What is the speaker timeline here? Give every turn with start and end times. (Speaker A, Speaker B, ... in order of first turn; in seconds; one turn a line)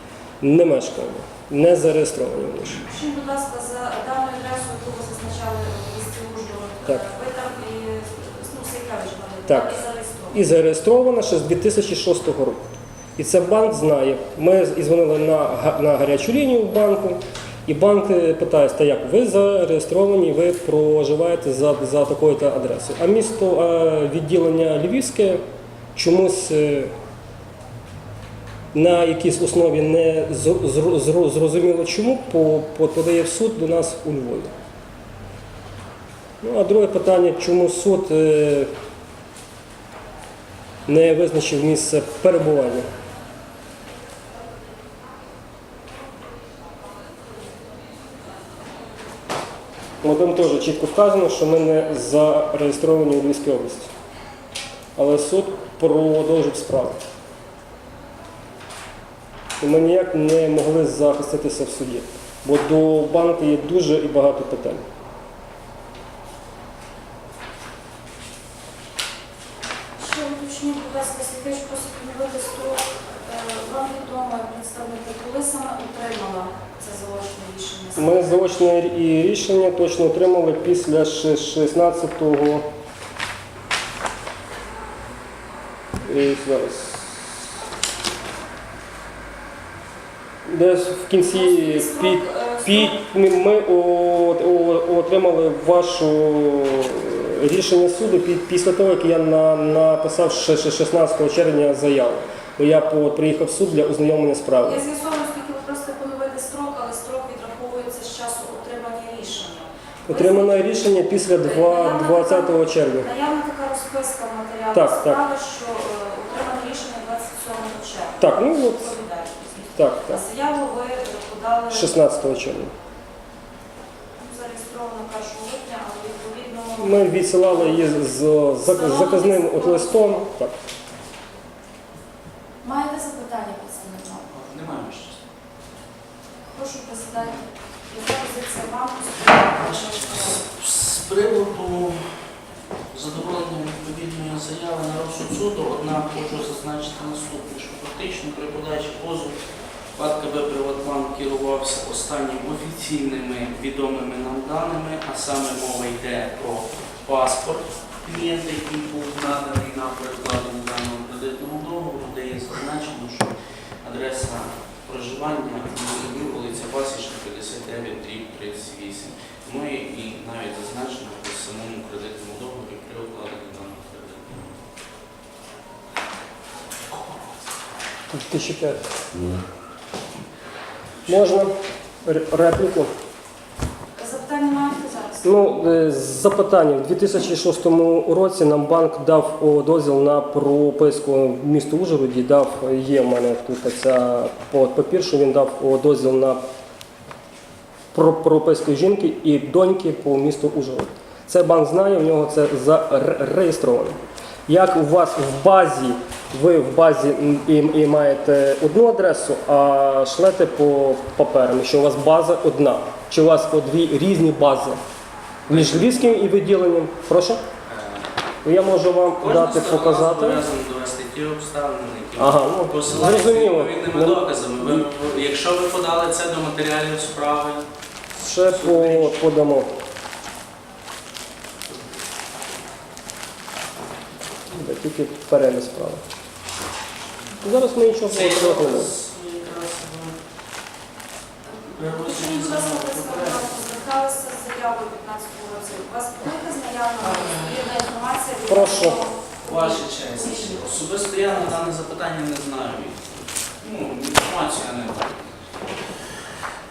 Speaker A: 0.4-2.8
Speaker B: 2.8-10.4
Speaker A: 9.5-9.8
Speaker A: 10.3-25.4
Speaker A: 25.9-26.9
Speaker A: 28.7-34.5
Speaker A: 36.4-38.7
Speaker A: 40.9-42.9
Speaker A: 50.0-53.9
Speaker A: 55.0-57.0
Speaker A: 59.6-64.8
Speaker B: 70.0-78.6
Speaker A: 78.0-82.7
Speaker A: 86.0-87.1
Speaker A: 90.4-104.8
Speaker B: 91.2-93.0
Speaker B: 104.6-110.7
Speaker A: 110.1-113.1
Speaker B: 111.3-122.0
Speaker A: 114.7-115.2
Speaker A: 118.2-118.9
Speaker A: 119.7-120.2
Speaker A: 121.7-122.7
Speaker B: 124.2-128.0
Speaker A: 126.8-130.5
Speaker B: 128.6-130.2
Speaker B: 132.6-134.3
Speaker C: 134.3-135.2
Speaker B: 136.5-140.4
Speaker C: 139.4-142.2
Speaker C: 142.9-149.3
Speaker C: 149.9-174.6
Speaker A: 178.1-178.9
Speaker A: 181.1-181.5
Speaker A: 182.0-182.9
Speaker B: 183.9-185.5
Speaker A: 185.2-196.4
Speaker A: 197.9-214.8
Speaker C: 215.5-216.2
Speaker A: 215.5-217.4
Speaker C: 217.7-218.1
Speaker A: 218.4-220.4
Speaker C: 219.2-227.6
Speaker A: 222.2-224.8
Speaker A: 228.1-229.7
Speaker C: 228.4-229.3
Speaker A: 234.5-236.0
Speaker C: 237.4-240.2
Speaker A: 237.4-238.9
Speaker B: 241.4-250.8
Speaker C: 241.8-243.5
Speaker C: 247.0-247.6
Speaker A: 248.5-249.0
Speaker C: 249.4-255.2